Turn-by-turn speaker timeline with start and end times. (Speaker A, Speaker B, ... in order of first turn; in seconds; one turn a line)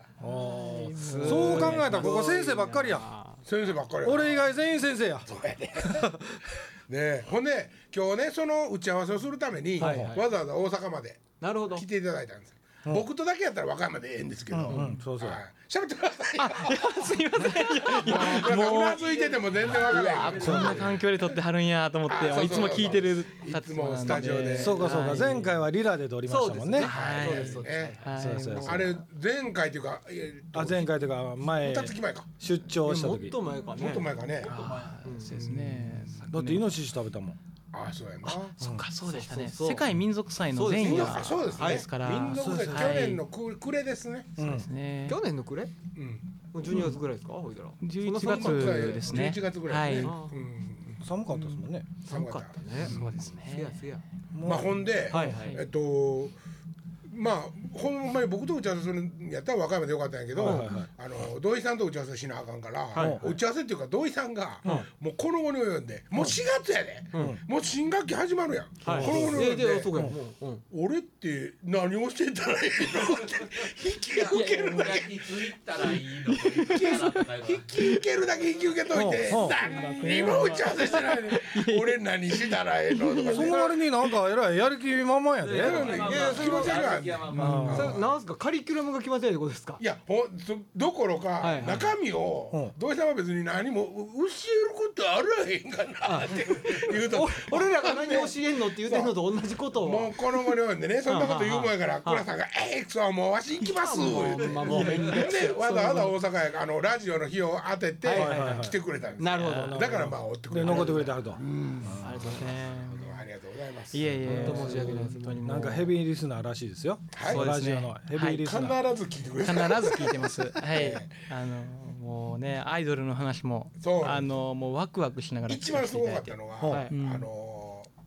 Speaker A: 0.2-3.1
Speaker B: 0.5-2.1
Speaker C: 0.9-3.4
Speaker D: 3.5-4.5
Speaker A: 4.0-5.3
Speaker D: 5.3-6.1
Speaker A: 5.8-6.4
Speaker D: 6.9-20.8
Speaker C: 9.8-10.3
Speaker A: 9.8-10.2
Speaker C: 11.4-11.8
Speaker A: 14.5-15.4
Speaker B: 14.7-15.0
Speaker B: 16.4-19.1
Speaker E: 18.9-21.1
Speaker B: 19.9-25.5
Speaker C: 20.0-20.8
Speaker A: 20.4-20.8
Speaker D: 22.1-25.0
Speaker A: 24.1-26.9
Speaker C: 26.3-28.1
Speaker D: 26.8-28.0
Speaker B: 26.8-29.0
Speaker A: 28.2-28.9
Speaker D: 28.6-32.3
Speaker A: 30.5-33.4
Speaker C: 32.8-34.1
Speaker D: 33.7-34.6
Speaker B: 34.4-36.8
Speaker E: 34.5-35.0
Speaker C: 35.0-35.7
Speaker A: 36.3-37.4
Speaker D: 37.7-38.5
Speaker B: 38.2-43.2
Speaker A: 38.6-38.9
Speaker C: 39.1-39.9
Speaker C: 40.5-41.9
Speaker D: 40.8-44.4
Speaker A: 42.3-43.1
Speaker A: 44.4-44.7
Speaker B: 44.4-45.2
Speaker C: 45.1-45.7
Speaker D: 46.0-46.2
Speaker C: 46.5-49.3
Speaker B: 46.7-47.0
Speaker B: 47.8-50.2
Speaker D: 48.2-51.0
Speaker C: 50.0-50.3
Speaker A: 51.0-51.9
Speaker B: 51.3-51.6
Speaker C: 52.0-54.0
Speaker D: 52.1-53.1
Speaker B: 52.8-53.9
Speaker A: 54.3-55.4
Speaker D: 54.4-56.4
Speaker C: 55.1-55.6
Speaker B: 55.2-55.5
Speaker D: 57.1-69.9
Speaker A: 60.4-60.9
Speaker C: 60.4-60.7
Speaker C: 62.9-63.2
Speaker A: 63.0-63.3
Speaker C: 67.1-67.4
Speaker C: 68.8-70.6
Speaker A: 68.8-69.4
Speaker D: 70.7-75.9
Speaker E: 73.0-78.0
Speaker B: 74.3-75.0
Speaker D: 76.6-83.8
Speaker B: 76.8-77.2
Speaker A: 78.9-79.6
Speaker B: 79.3-83.6
Speaker C: 80.1-80.3
Speaker A: 83.2-85.9
Speaker E: 85.4-87.7
Speaker D: 85.5-88.0
Speaker C: 86.0-86.9
Speaker A: 87.3-88.0
Speaker B: 87.3-87.9
Speaker C: 87.7-89.8
Speaker D: 89.8-99.2
Speaker C: 91.4-91.9
Speaker C: 96.0-100.2
Speaker D: 99.8-114.5
Speaker C: 101.1-102.3
Speaker C: 103.6-106.2
Speaker E: 104.8-105.2
Speaker C: 108.0-109.8
Speaker A: 108.1-108.8
Speaker A: 109.4-112.3
Speaker C: 110.7-110.9
Speaker B: 111.8-113.2
Speaker B: 113.9-116.0
Speaker A: 114.2-118.8
Speaker C: 114.3-115.4
Speaker D: 117.1-117.5
Speaker B: 117.2-118.6
Speaker D: 118.4-121.1
Speaker B: 119.4-127.3
Speaker D: 123.8-124.3
Speaker D: 125.5-127.9